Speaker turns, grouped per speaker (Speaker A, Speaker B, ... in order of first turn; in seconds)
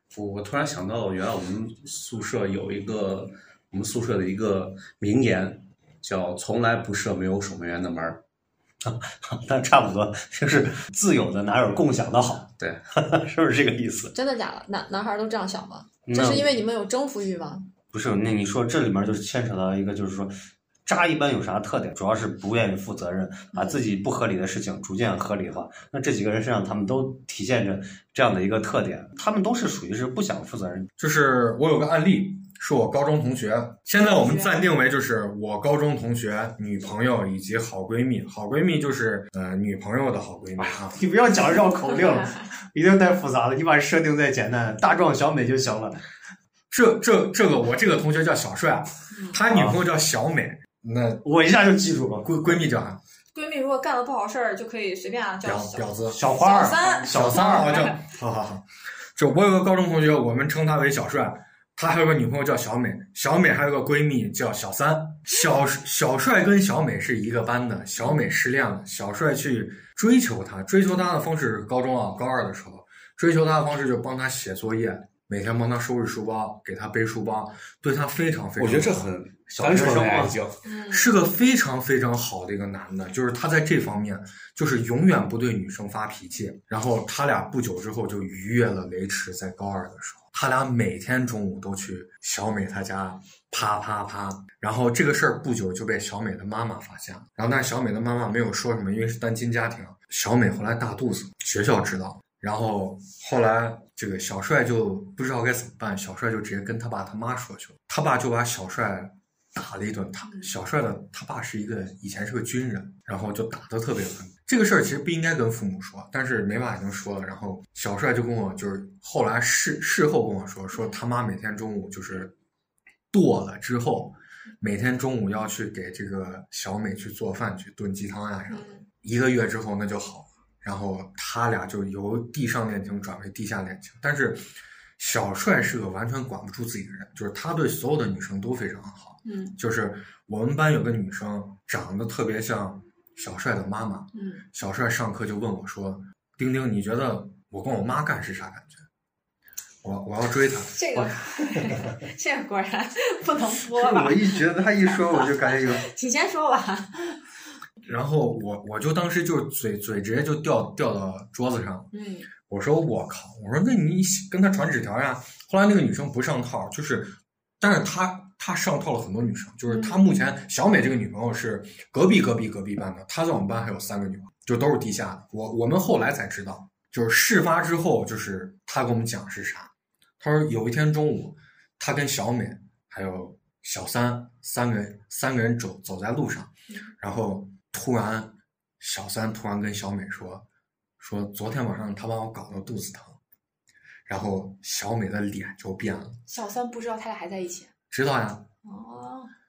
Speaker A: 0.1-8.2, 78.6-80.6
Speaker B: 8.8-14.1, 16.1-16.5, 17.9-20.3, 20.9-30.9, 40.6-46.0, 49.5-49.8, 51.2-52.7, 56.1-57.7, 79.6-80.3, 153.7-155.8
Speaker C: 14.1-17.7, 23.5-23.8, 34.0-34.6, 49.1-49.4, 53.3-58.0, 80.6-81.1, 128.5-128.8, 139.2-139.6, 144.1-144.4, 150.7-154.4, 155.3-157.2, 161.9-162.3, 169.7-170.0, 196.3-197.7, 198.6-199.3
Speaker D: 31.0-41.0, 46.7-51.2, 52.4-53.0, 55.4-56.2, 57.1-58.6, 59.1-80.3, 80.9-122.3, 123.1-134.5, 135.0-148.8, 149.8-151.8, 157.8-161.9, 162.4-186.5, 187.0-190.4, 191.0-193.2, 194.1-196.2, 197.9-198.5